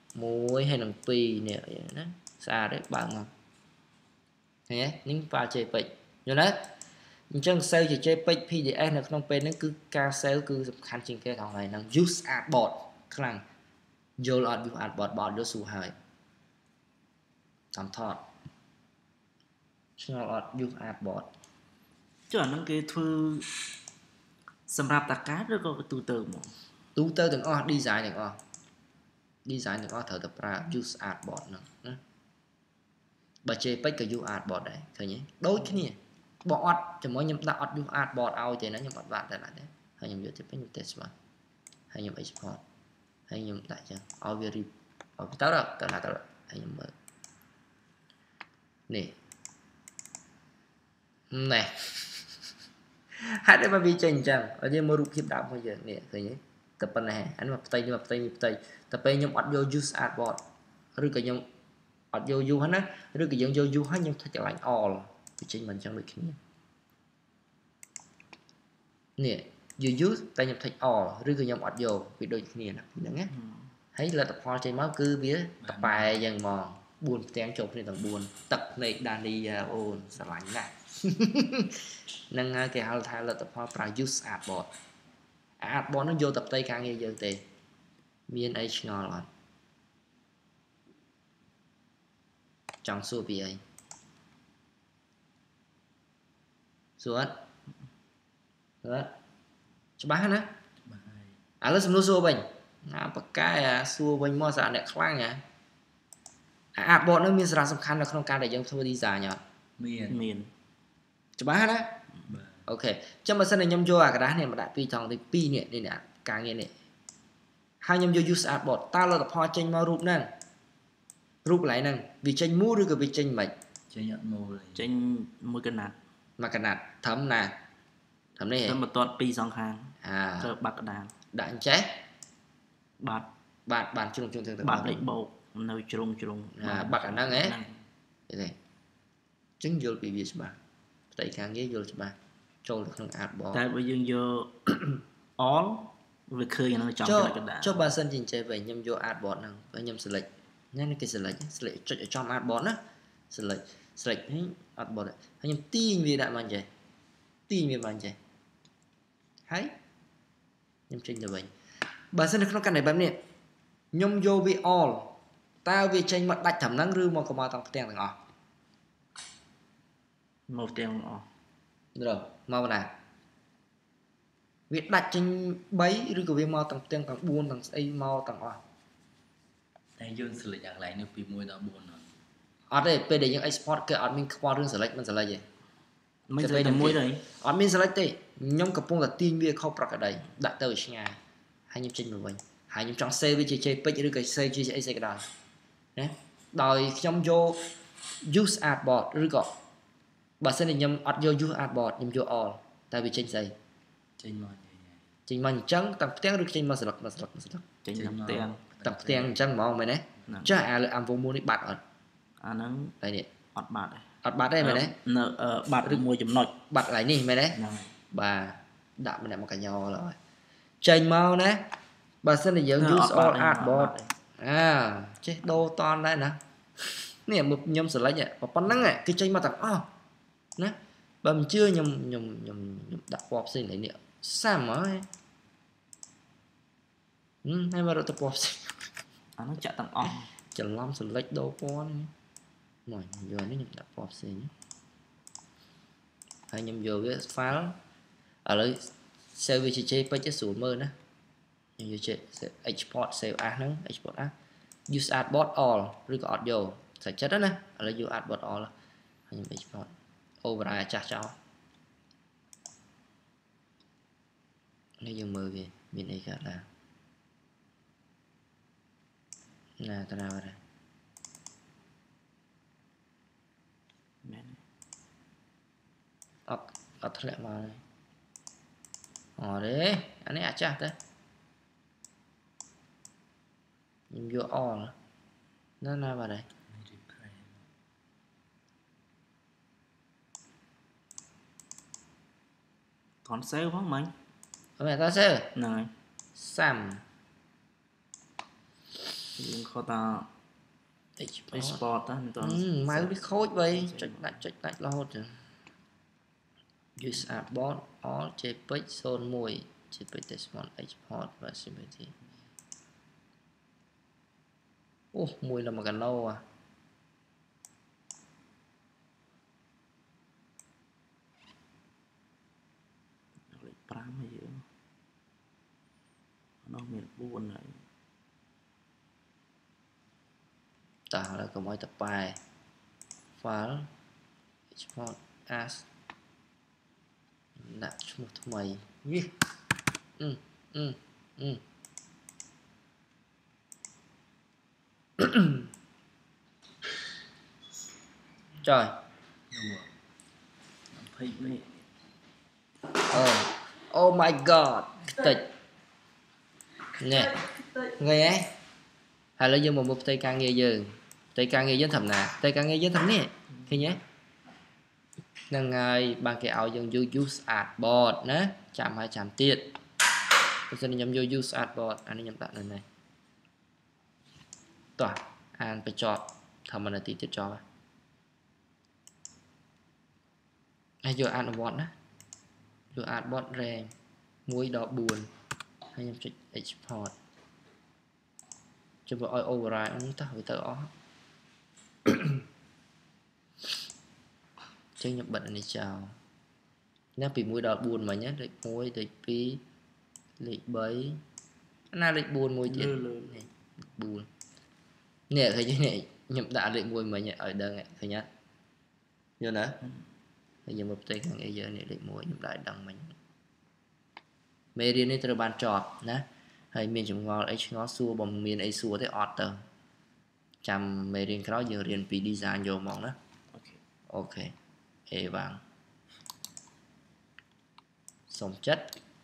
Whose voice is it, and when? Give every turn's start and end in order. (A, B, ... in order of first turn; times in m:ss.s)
0:00.1-0:03.3 A
0:04.7-0:06.6 A
0:07.3-0:13.4 A
0:14.2-0:15.9 A
0:17.7-0:18.2 A
0:20.0-0:21.3 A
0:22.3-0:23.5 B
0:24.7-0:26.5 B
0:27.0-0:28.4 A
0:29.4-0:32.0 A
0:33.4-0:41.1 A
0:41.9-0:42.6 A
0:43.3-0:46.9 A
0:48.9-0:49.2 A
0:51.3-0:52.3 A
0:53.2-1:00.4 A
1:01.0-1:01.4 A
1:02.1-1:06.4 A
1:09.2-1:13.3 A
1:13.3-1:13.7 B
1:13.9-1:24.7 A
1:15.6-1:16.2 C
1:25.6-1:27.4 A
1:28.3-1:29.3 A
1:32.8-1:33.6 A
1:37.0-1:37.3 A
1:38.8-1:39.1 A
1:40.0-1:40.5 A
1:40.9-1:41.4 C
1:41.6-1:45.4 A
1:46.8-1:49.4 A
1:49.8-1:50.2 C
1:50.1-1:50.5 B
1:51.4-1:51.9 A
1:52.3-1:52.6 C
1:52.7-1:56.7 A
1:57.8-2:00.3 A
2:01.4-2:03.5 A
2:03.9-2:04.9 C
2:04.8-2:06.0 B
2:06.4-2:07.5 A
2:08.4-2:08.8 A
2:08.6-2:11.1 B
2:10.0-2:10.5 A
2:11.3-2:12.0 A
2:13.0-2:13.3 B
2:13.7-2:15.0 A
2:14.6-2:17.8 B
2:16.6-2:17.6 A
2:18.3-2:18.6 A
2:19.6-2:20.6 A
2:21.1-2:23.6 A
2:23.5-2:24.8 B
2:25.4-2:27.9 B
2:27.0-2:32.8 A
2:33.3-2:36.7 A
2:37.5-2:38.2 A
2:39.5-2:39.7 A
2:40.9-2:41.5 A
2:42.1-2:43.2 A
2:43.9-2:45.1 A
2:45.6-2:48.2 A
2:50.5-2:51.3 B
2:52.0-2:52.9 A
2:54.7-2:58.6 A
3:00.0-3:02.0 C
3:02.7-3:05.4 A
3:06.3-3:07.2 B
3:06.4-3:11.2 A
3:11.7-3:15.2 A
3:16.0-3:17.6 A
3:18.2-3:19.5 A
3:20.4-3:23.5 A
3:24.2-3:25.0 C
3:25.3-3:27.6 A
3:27.8-3:28.6 B
3:27.9-3:29.4 C
3:28.8-3:31.8 A
3:30.3-3:30.6 B
3:32.4-3:32.9 B
3:33.0-3:33.3 A
3:33.5-3:34.0 B
3:34.2-3:35.0 A
3:34.6-3:36.6 B
3:36.7-3:37.6 A
3:37.5-3:37.9 B
3:38.1-3:40.2 A
3:40.8-3:41.6 A
3:42.2-3:49.9 A
3:42.8-3:44.1 B
3:50.6-3:55.1 A
3:57.4-3:58.8 A
3:59.4-4:00.3 B
4:00.5-4:02.1 A
4:02.9-4:04.5 A
4:06.5-4:07.8 A
4:08.4-4:10.9 A
4:11.8-4:14.3 A
4:14.9-4:18.7 A
4:19.3-4:19.9 A
4:20.4-4:21.4 A
4:25.0-4:26.6 A
4:29.8-4:30.6 A
4:34.2-4:34.6 B
4:36.5-4:37.8 A
4:39.4-4:40.9 A
4:44.1-4:44.9 A
4:45.8-4:46.5 A
4:46.7-4:47.6 C
4:53.2-4:54.1 B
4:54.8-4:55.5 A
4:55.5-4:55.9 B
4:56.4-4:57.0 A
4:59.4-5:00.3 B
5:01.2-5:01.8 A
5:01.5-5:04.4 B
5:02.4-5:05.4 A
5:07.0-5:12.1 A
5:15.1-5:16.4 A
5:23.5-5:24.6 B
5:26.6-5:27.8 B
5:31.1-5:32.4 A
5:33.4-5:33.9 A
5:34.7-5:35.9 A
5:37.6-5:39.3 A
5:40.2-5:41.6 A
5:45.2-5:45.6 A
5:48.6-5:48.9 A
5:49.5-5:49.9 C
5:50.9-5:51.6 C
5:51.4-5:51.6 B
5:53.1-5:55.5 A
5:57.0-5:58.5 A
5:59.4-6:04.0 A
6:05.5-6:09.7 A
6:10.7-6:12.8 A
6:15.0-6:17.6 A
6:21.0-6:21.9 A
6:22.9-6:23.9 A
6:24.5-6:25.3 A
6:25.9-6:27.1 A
6:29.1-6:30.9 A
6:32.1-6:32.4 A
6:35.0-6:36.1 A
6:37.2-6:39.6 A
6:40.4-6:41.2 A
6:41.9-6:44.3 A
6:42.7-6:43.3 B
6:45.3-6:48.3 A
6:49.4-6:49.8 A
6:50.6-6:53.2 A
6:54.8-6:59.6 A
7:00.6-7:03.1 A
7:03.5-7:03.8 B
7:04.1-7:04.5 A
7:05.1-7:05.6 A
7:08.3-7:08.9 A